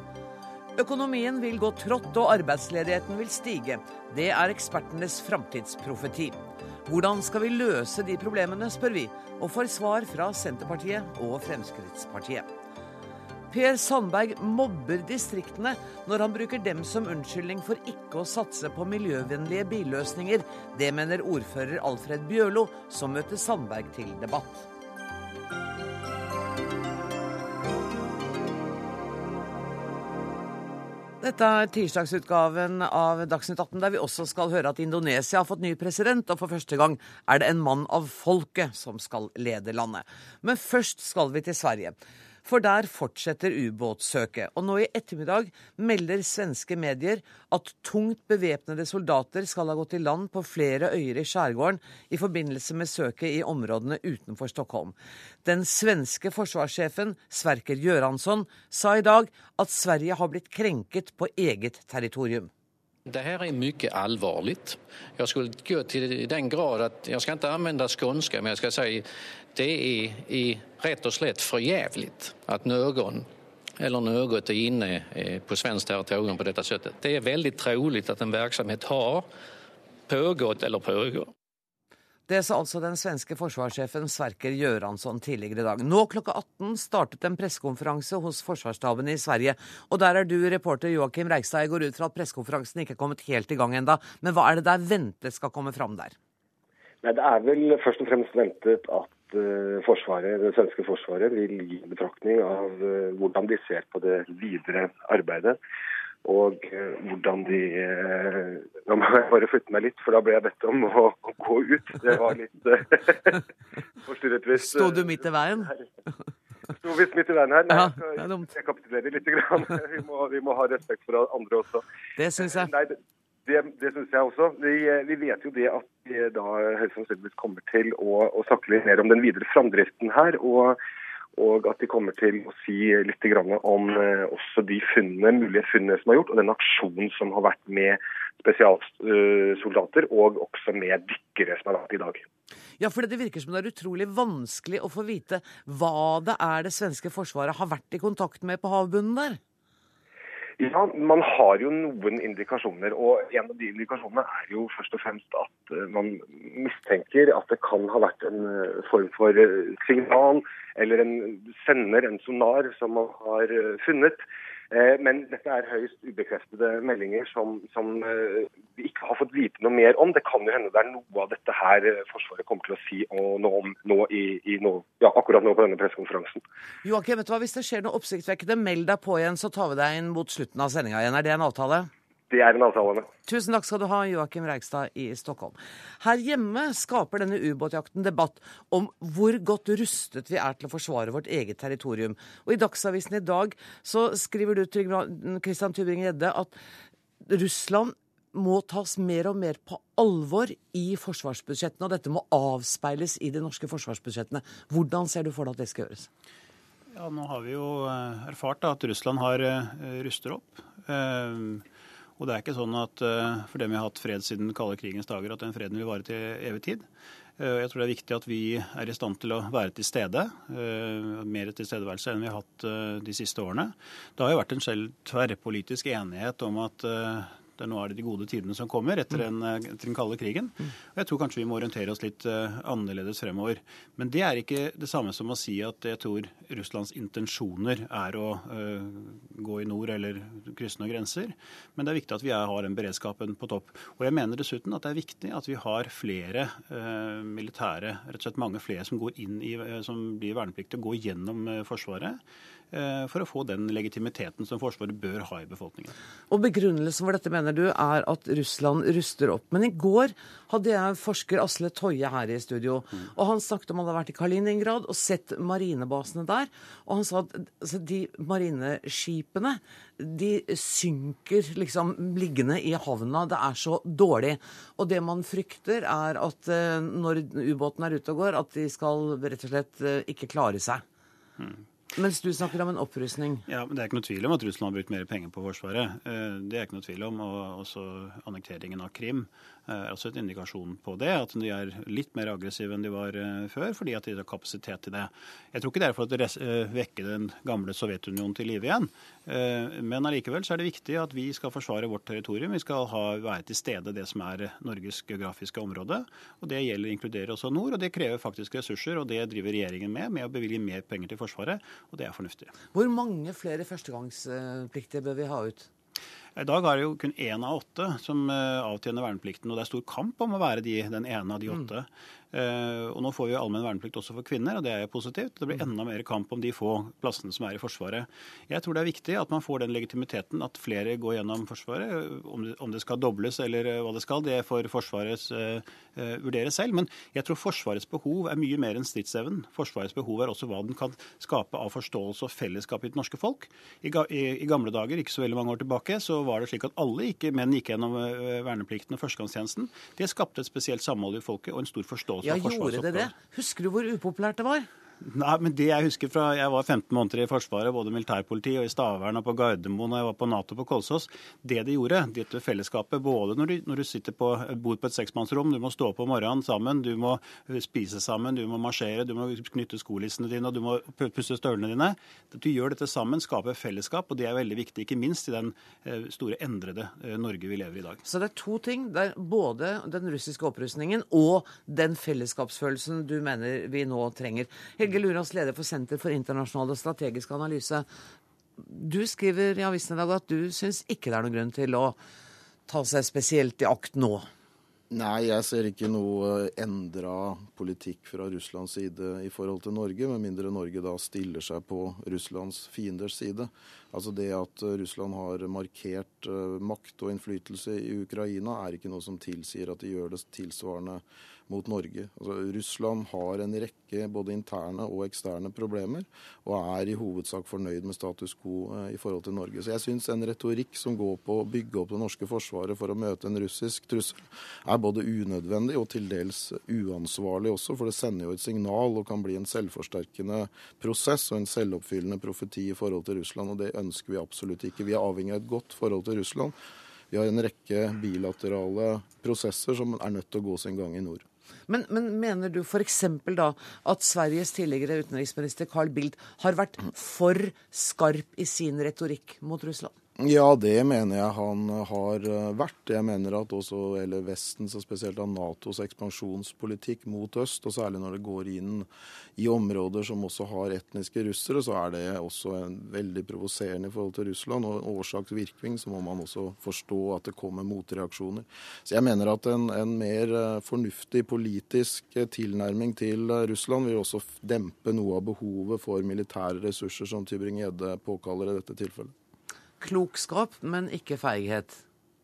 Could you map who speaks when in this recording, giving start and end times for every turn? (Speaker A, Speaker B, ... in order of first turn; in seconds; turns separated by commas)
Speaker A: 0.8-12.5, Speaker A: 13.5-24.7, Speaker A: 31.2-62.5, Speaker B: 63.1-73.3, Speaker B: 73.8-79.3, Speaker B: 80.1-81.3, Speaker A: 82.3-96.1, Speaker C: 97.0-105.6, Speaker C: 106.2-113.4, Speaker C: 114.0-115.8, Speaker A: 114.5-115.7, Speaker C: 116.8-121.8, Speaker A: 117.7-118.5, Speaker A: 122.2-122.7, Speaker C: 122.4-130.8, Speaker C: 131.4-142.2, Speaker A: 142.8-149.4, Speaker C: 150.6-164.2, Speaker C: 164.7-176.4, Speaker A: 176.8-181.9, Speaker C: 182.3-183.1, Speaker A: 183.2-196.5, Speaker A: 197.2-206.1, Speaker D: 206.9-211.6, Speaker D: 212.2-216.8, Speaker D: 217.4-252.2, Speaker D: 252.7-255.9, Speaker A: 256.3-280.8, Speaker D: 281.4-281.6, Speaker A: 281.9-283.4, Speaker D: 283.4-312.5, Speaker A: 312.7-315.7, Speaker D: 316.4-353.1, Speaker A: 352.2-354.7, Speaker D: 355.0-378.0, Speaker A: 378.0-387.9, Speaker A: 388.6-391.9, Speaker A: 392.7-394.3, Speaker E: 394.9-436.5, Speaker E: 437.1-441.2, Speaker A: 441.7-449.9, Speaker E: 450.2-479.1, Speaker A: 479.8-481.8